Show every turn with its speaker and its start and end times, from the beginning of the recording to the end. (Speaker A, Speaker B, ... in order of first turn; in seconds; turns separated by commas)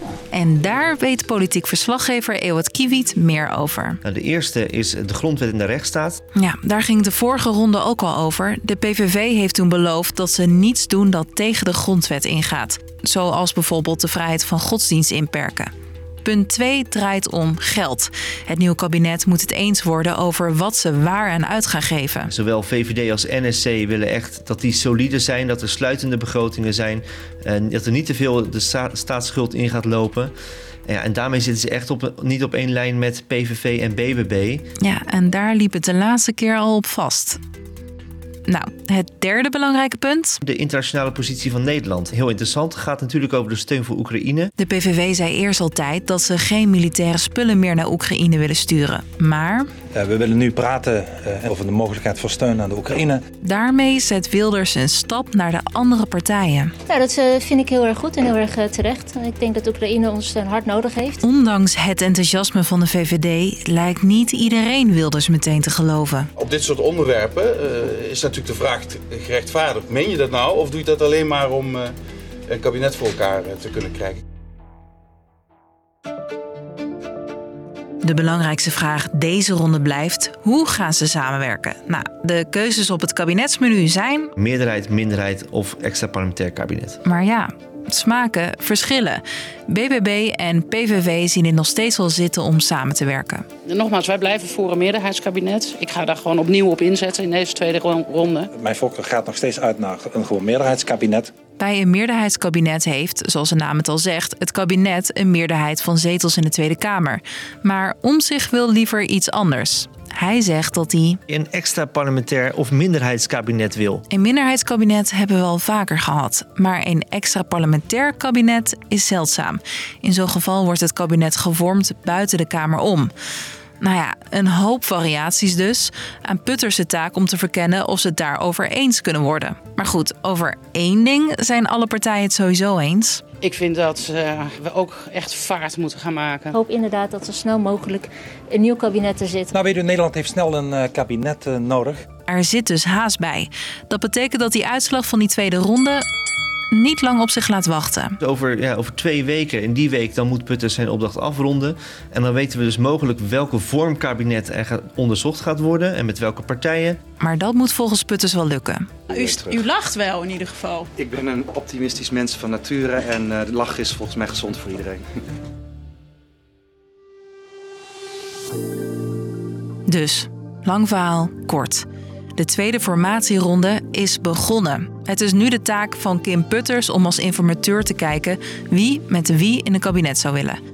Speaker A: 0.3-4.0, Speaker B: 4.0-6.2, Speaker A: 6.3-15.7, Speaker A: 16.2-22.3, Speaker B: 22.3-30.3, Speaker B: 30.9-34.6, Speaker A: 34.8-37.4, Speaker A: 38.5-40.4, Speaker B: 40.4-44.5, Speaker A: 44.6-49.7, Speaker C: 49.9-53.2, Speaker A: 53.4-56.7, Speaker D: 56.9-61.2, Speaker A: 61.2-66.3, Speaker E: 66.4-70.8, Speaker E: 72.6-74.0, Speaker A: 78.0-84.3, Speaker B: 84.3-87.0, Speaker A: 87.0-93.4, Speaker F: 93.7-98.5, Speaker C: 98.5-101.3, Speaker A: 101.6-111.2, Speaker B: 111.3-114.0, Speaker A: 114.1-123.1, Speaker A: 123.8-133.2, Speaker F: 133.4-136.5, Speaker D: 136.5-139.5, Speaker C: 139.5-142.0, Speaker A: 142.3-146.0, Speaker A: 146.7-148.2, Speaker B: 148.2-157.0, Speaker A: 157.2-158.9, Speaker G: 159.1-159.7, Speaker F: 159.1-160.9, Speaker G: 160.9-165.0, Speaker A: 169.9-171.8, Speaker A: 172.3-180.6